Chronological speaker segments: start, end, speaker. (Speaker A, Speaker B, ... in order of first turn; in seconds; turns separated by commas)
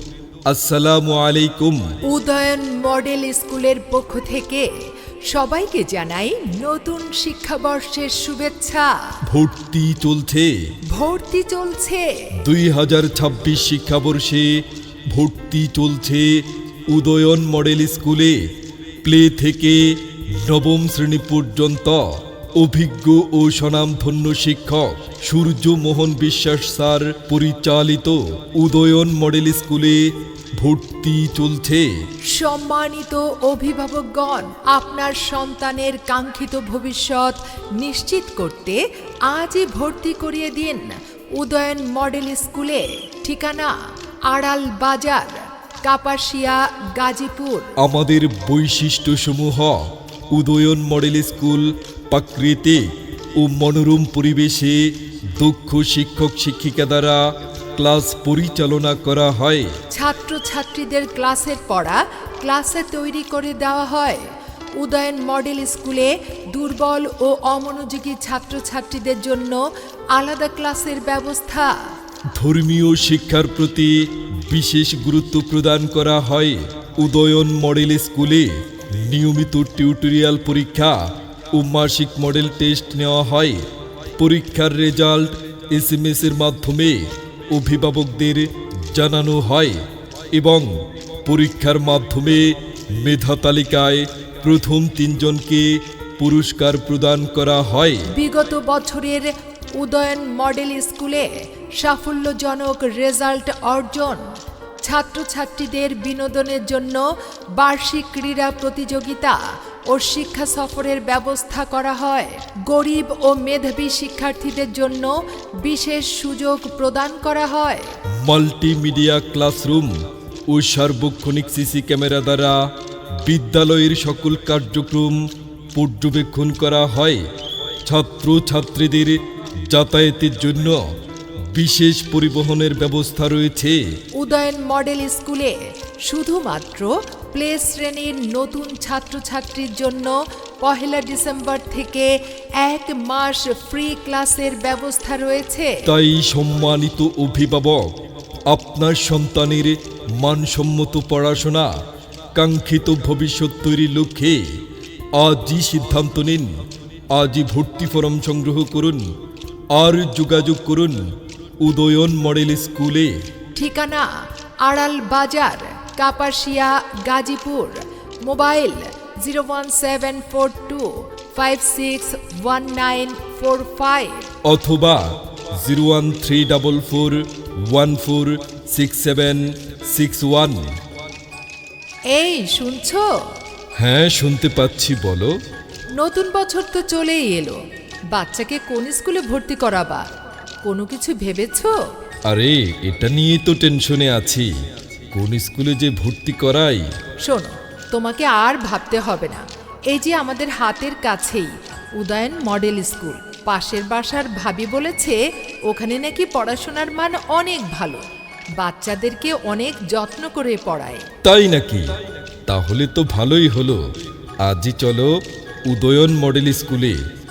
Speaker A: 0.5-1.8, Speaker B: 2.0-4.7, Speaker B: 5.3-8.9, Speaker A: 9.3-10.6, Speaker B: 10.9-12.3, Speaker A: 12.4-18.5, Speaker A: 19.0-31.9, Speaker B: 32.3-47.7, Speaker A: 47.8-57.2, Speaker A: 57.8-59.7, Speaker B: 59.9-64.2, Speaker B: 64.8-71.7, Speaker A: 72.3-98.1, Speaker B: 98.1-104.2, Speaker B: 104.8-117.9, Speaker A: 118.2-119.9, Speaker A: 120.5-125.2, Speaker A: 125.7-127.3, Speaker A: 127.8-130.8, Speaker A: 131.5-133.8, Speaker B: 134.1-145.8, Speaker A: 145.8-147.9, Speaker A: 148.5-151.7, Speaker A: 152.3-154.4, Speaker A: 155.2-159.1, Speaker A: 159.7-161.0, Speaker A: 161.6-163.1, Speaker B: 163.5-164.1, Speaker B: 164.6-174.3, Speaker A: 174.4-180.7, Speaker B: 182.1-183.1, Speaker A: 183.8-185.3, Speaker B: 186.0-187.6, Speaker B: 188.1-190.1, Speaker B: 190.6-191.8, Speaker A: 192.3-194.5, Speaker A: 195.1-196.9, Speaker B: 197.2-208.0, Speaker B: 208.6-211.0, Speaker A: 211.2-213.8, Speaker A: 214.4-215.1, Speaker A: 215.7-217.0